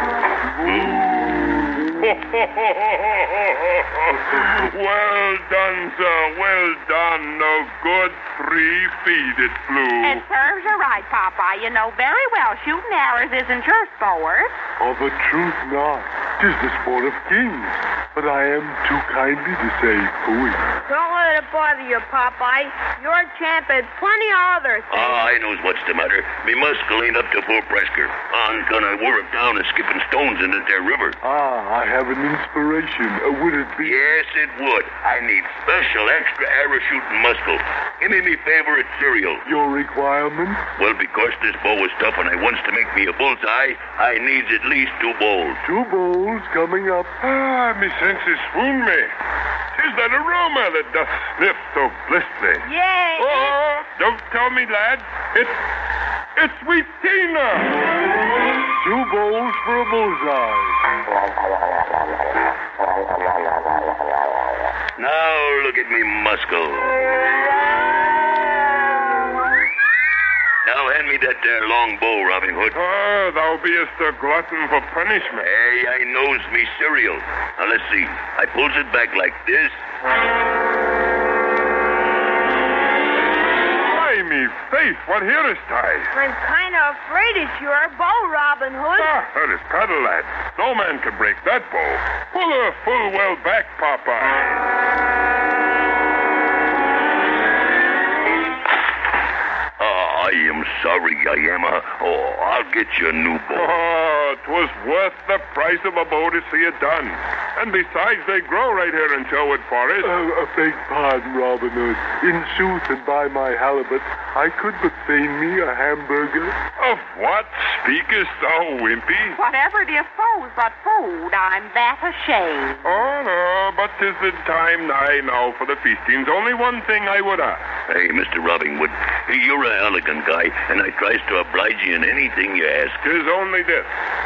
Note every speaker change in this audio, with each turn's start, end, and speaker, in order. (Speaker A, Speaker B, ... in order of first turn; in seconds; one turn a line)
Speaker A: 0.6-10.2
Speaker B: 10.0-14.5
Speaker C: 14.8-20.6
Speaker D: 20.9-25.2
Speaker E: 24.9-31.2
Speaker C: 31.2-34.2
Speaker E: 33.8-39.4
Speaker C: 39.4-40.6
Speaker E: 40.8-45.6
Speaker C: 45.6-47.1
Speaker A: 47.2-49.1
Speaker A: 49.7-52.6
Speaker D: 52.6-53.5
Speaker A: 53.2-55.5
Speaker A: 56.4-57.8
Speaker C: 58.8-60.8
Speaker E: 65.0-66.9
Speaker E: 70.6-72.8
Speaker A: 72.7-75.5
Speaker E: 75.4-79.7
Speaker A: 83.8-86.1
Speaker D: 86.1-89.1
Speaker A: 88.9-94.6
Speaker E: 99.8-103.8
Speaker A: 103.5-110.1
Speaker C: 110.0-116.5
Speaker A: 116.8-119.4
Speaker B: 119.3-122.8
Speaker A: 122.8-127.7
Speaker E: 127.9-133.0
Speaker A: 133.0-133.9